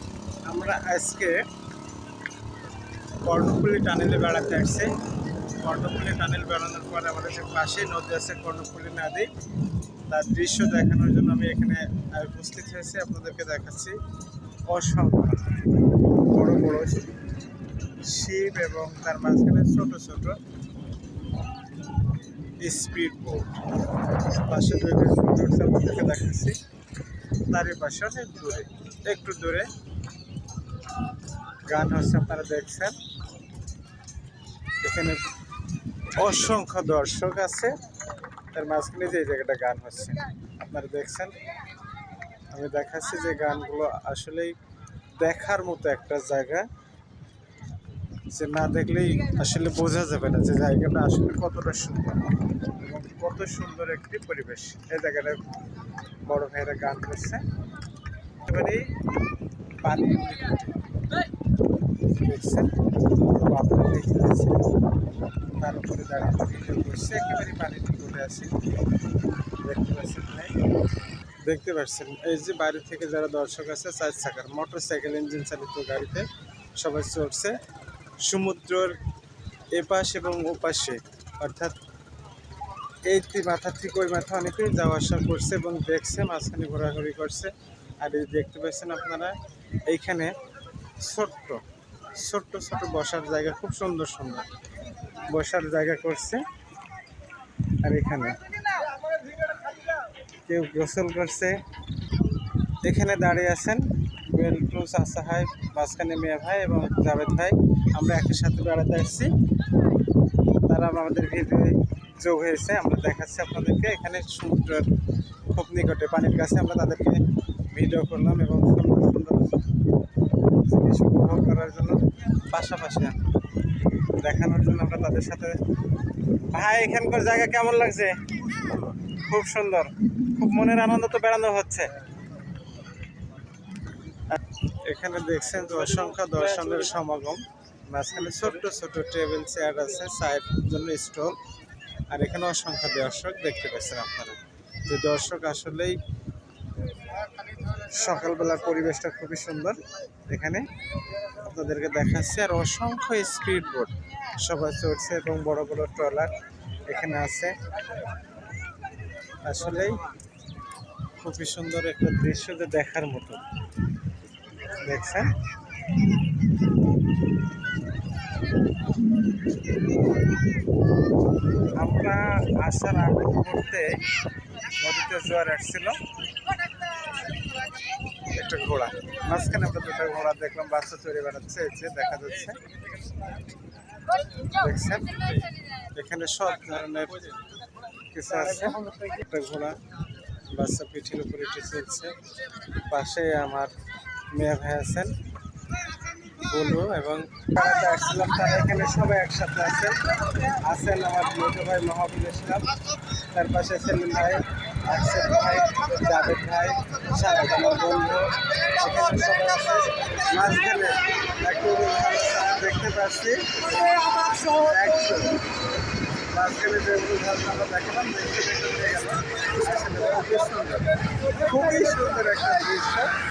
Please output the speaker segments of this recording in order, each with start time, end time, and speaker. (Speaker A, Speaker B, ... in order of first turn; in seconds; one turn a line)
Speaker A: 0.5-1.4
Speaker A: 3.2-4.9
Speaker A: 5.6-9.3
Speaker A: 10.1-14.0
Speaker A: 14.7-15.5
Speaker A: 16.2-17.1
Speaker A: 18.0-20.4
Speaker A: 22.6-23.5
Speaker A: 24.1-26.6
Speaker A: 27.5-29.7
Speaker A: 31.7-33.0
Speaker A: 34.8-35.2
Speaker A: 36.2-37.8
Speaker A: 38.5-41.4
Speaker A: 42.5-44.5
Speaker A: 45.2-46.7
Speaker A: 48.3-55.4
Speaker A: 56.2-57.4
Speaker A: 58.4-59.0
Speaker A: 59.8-60.7
Speaker A: 62.0-64.8
Speaker A: 65.5-68.5
Speaker A: 69.6-70.6
Speaker A: 71.4-77.6
Speaker A: 78.2-79.0
Speaker A: 79.7-81.8
Speaker A: 83.0-89.3
Speaker A: 89.9-90.3
Speaker A: 91.0-91.6
Speaker A: 92.2-94.5
Speaker A: 95.3-96.4
Speaker A: 97.8-98.4
Speaker A: 100.5-101.6
Speaker A: 102.8-109.3
Speaker A: 110.7-114.9
Speaker A: 115.5-119.7
Speaker A: 120.6-123.2
Speaker A: 124.2-125.6
Speaker A: 126.5-131.9
Speaker A: 134.3-141.4
Speaker A: 142.1-146.0
Speaker A: 147.8-150.7
Speaker A: 151.4-156.3
Speaker A: 156.8-157.6
Speaker A: 159.4-160.1
Speaker A: 161.2-163.4
Speaker A: 164.8-165.3
Speaker A: 171.8-174.0
Speaker A: 174.8-176.0
Speaker A: 178.3-182.6
Speaker A: 184.5-187.3
Speaker A: 188.1-189.8
Speaker A: 190.5-192.2
Speaker A: 192.8-193.7
Speaker A: 194.3-195.1
Speaker A: 196.3-202.7
Speaker A: 203.3-215.4
Speaker A: 216.3-223.1